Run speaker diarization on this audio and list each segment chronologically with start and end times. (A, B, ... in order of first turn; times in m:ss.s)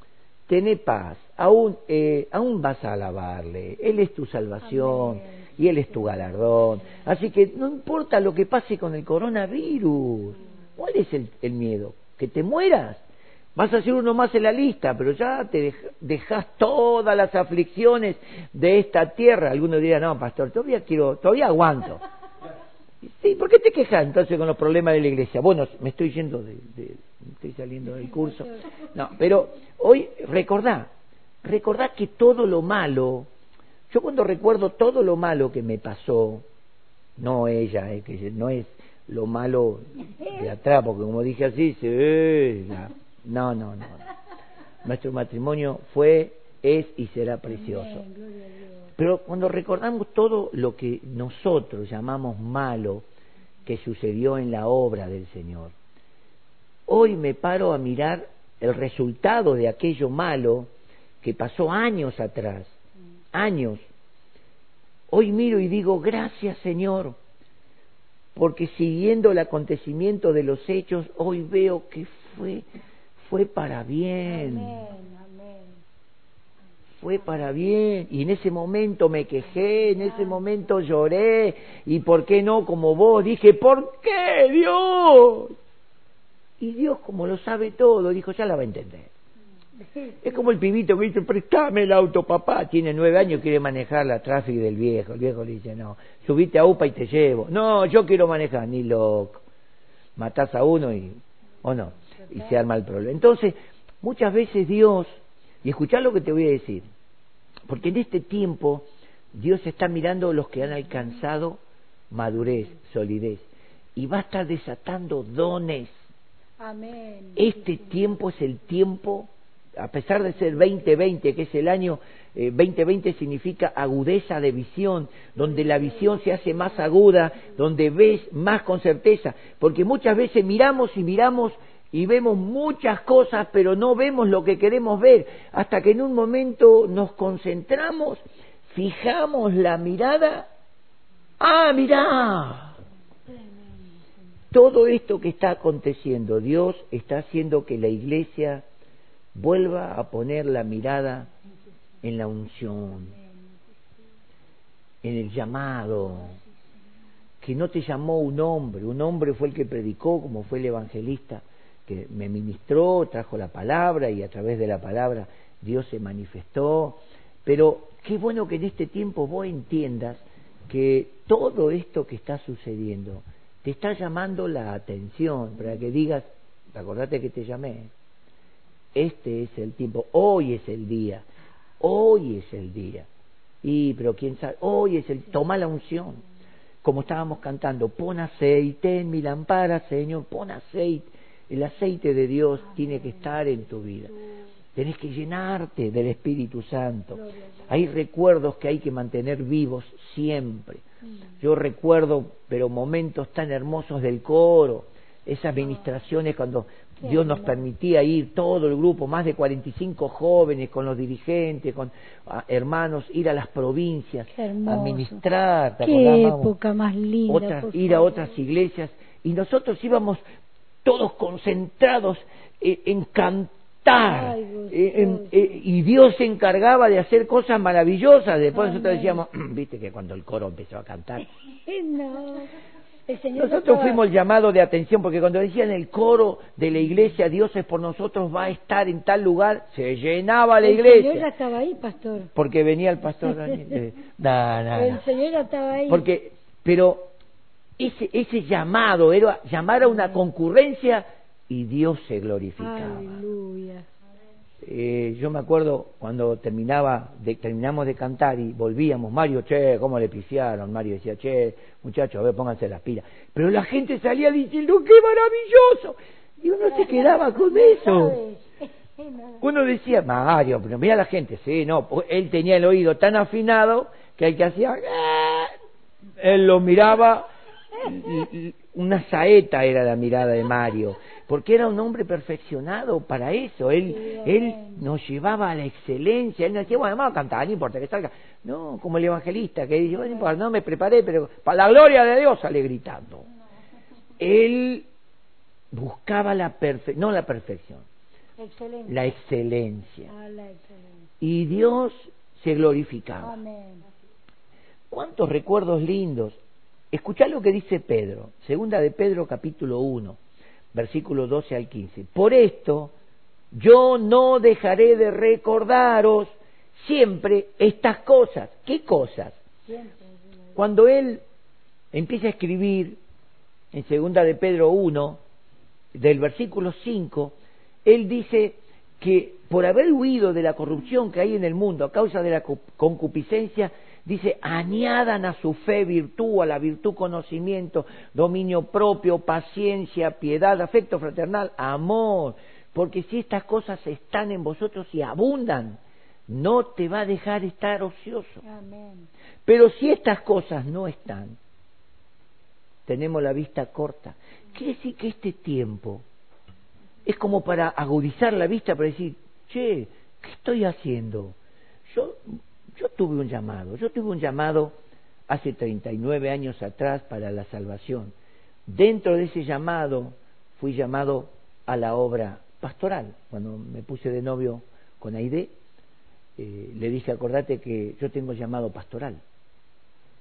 0:00.5-0:13.0 A
0:04.8-0:05.4 B
0:13.6-0:22.0 A
0:23.0-0:30.9 A
0:31.4-0:33.3 A
0:33.9-0:36.4 A
0:37.2-0:44.0 A
0:44.8-0:48.0 A
0:47.5-0:48.9 B
0:49.0-0:53.0 A
0:53.6-0:55.8 A
0:56.9-1:02.8 A
1:03.3-1:03.8 A
1:05.1-1:07.2 A
1:08.3-1:12.7 A
1:13.3-1:14.8 A
1:14.2-1:15.8 B
1:17.0-1:25.6 A
1:26.6-1:29.1 A
1:29.8-1:30.3 B
1:30.2-1:39.4 A
1:40.2-1:46.8 A
1:47.7-1:51.6 A
1:52.1-1:56.0 A
1:56.6-1:57.6 B
1:57.4-2:20.5 A
2:21.4-2:22.8 A
2:24.5-2:28.6 A
2:29.3-2:31.3 A
2:32.0-2:33.2 A
2:35.0-2:36.4 A
2:37.4-2:57.9 A
2:58.9-3:01.2 A
3:01.8-3:03.1 A
3:03.6-3:06.2 A
3:06.8-3:14.1 A
3:14.7-3:20.8 A
3:17.1-3:17.7 B
3:21.4-3:36.5 A
3:27.0-3:27.6 B
3:34.3-3:35.2 B
3:35.8-3:38.3 B
3:37.3-3:40.2 A
3:40.8-3:51.3 A
3:44.0-3:45.6 B
3:48.5-3:49.2 B
3:51.5-3:52.5 B
3:53.1-3:54.0 B
3:53.3-4:01.3 A
4:00.6-4:02.3 B
4:02.3-4:05.0 A
4:03.3-4:03.5 B
4:04.7-4:06.0 B
4:05.9-4:07.1 A
4:07.8-4:13.2 A
4:12.6-4:13.9 B
4:14.6-4:28.2 A
4:26.7-4:29.4 B
4:29.4-4:35.5 A
4:36.2-4:53.3 A
4:43.9-4:44.8 B
4:50.0-4:50.3 B
4:54.2-4:54.9 A
4:55.7-4:57.8 A
4:58.4-4:59.0 B
4:58.9-5:00.1 A
5:00.1-5:01.0 B
5:01.2-5:03.4 A
5:03.2-5:03.8 B
5:04.9-5:06.4 A
5:06.9-5:10.2 A
5:10.7-5:12.9 A
5:13.5-5:19.4 A
5:19.6-5:20.6 B
5:20.6-5:21.2 A
5:21.9-5:23.0 A
5:23.7-5:25.2 A
5:25.9-5:48.4 A
5:48.4-5:49.1 B
5:49.4-5:51.4 A
5:52.8-5:56.0 A
5:57.0-6:01.4 A
6:01.9-6:04.7 A
6:05.3-6:08.1 A
6:08.7-6:15.5 A
6:16.4-6:19.2 A